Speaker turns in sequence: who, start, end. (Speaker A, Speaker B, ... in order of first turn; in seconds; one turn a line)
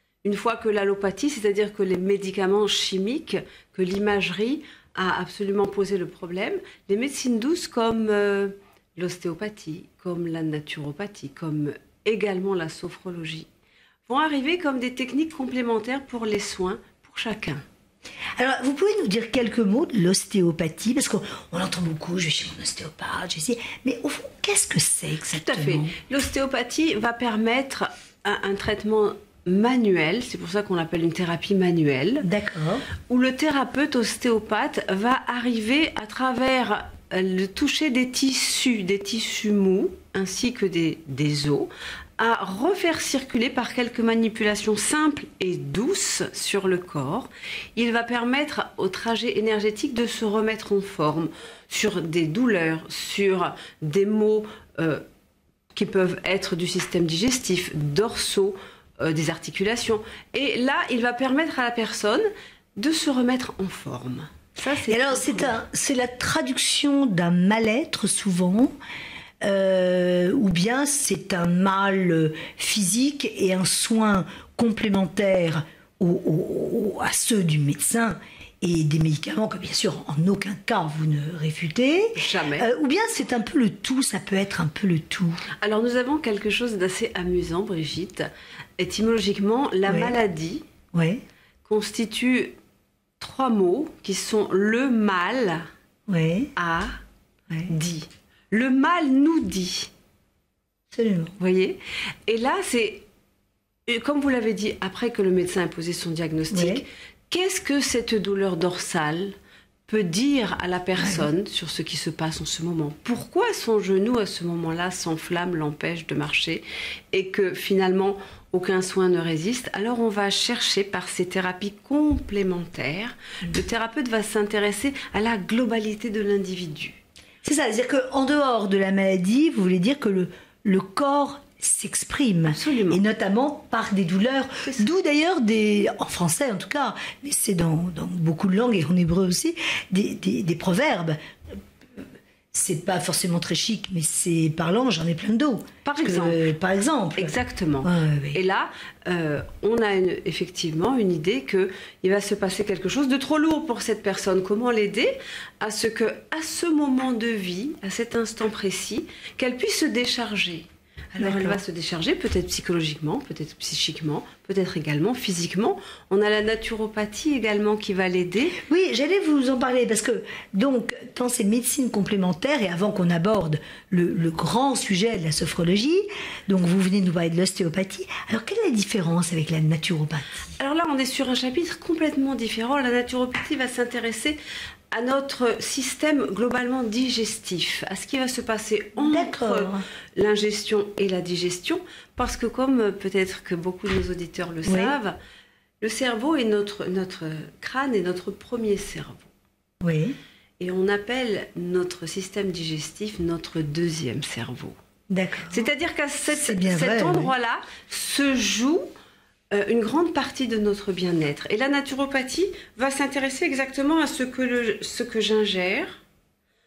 Speaker A: 0.2-13.5
Speaker A: 14.1-17.6
Speaker B: 18.4-25.9
Speaker A: 25.3-32.3
Speaker B: 32.2-32.8
Speaker A: 33.1-55.0
Speaker A: 55.7-65.6
Speaker B: 64.9-68.7
Speaker B: 69.4-85.4
Speaker A: 82.1-82.7
Speaker A: 85.6-88.3
Speaker A: 88.8-90.6
Speaker B: 89.9-90.2
Speaker B: 90.9-91.2
Speaker A: 91.6-92.5
Speaker A: 93.2-95.7
Speaker B: 96.1-96.5
Speaker A: 96.5-96.9
Speaker A: 97.7-99.9
Speaker B: 100.9-101.3
Speaker A: 101.4-103.0
Speaker A: 103.9-109.3
Speaker B: 106.5-106.8
Speaker A: 109.9-127.0
Speaker B: 111.0-111.2
Speaker B: 127.4-142.0
Speaker A: 132.5-133.0
Speaker B: 142.5-148.4
Speaker A: 145.8-146.4
Speaker A: 147.2-168.6
Speaker B: 161.2-161.6
Speaker B: 168.6-180.6
Speaker A: 180.6-184.4
Speaker A: 184.9-195.2
Speaker B: 189.0-189.8
Speaker B: 194.7-194.9
Speaker A: 195.8-199.3
Speaker B: 199.8-200.2
Speaker A: 200.6-204.8
Speaker B: 205.1-205.7
Speaker A: 205.5-208.9
Speaker B: 206.3-207.3
Speaker A: 209.5-216.0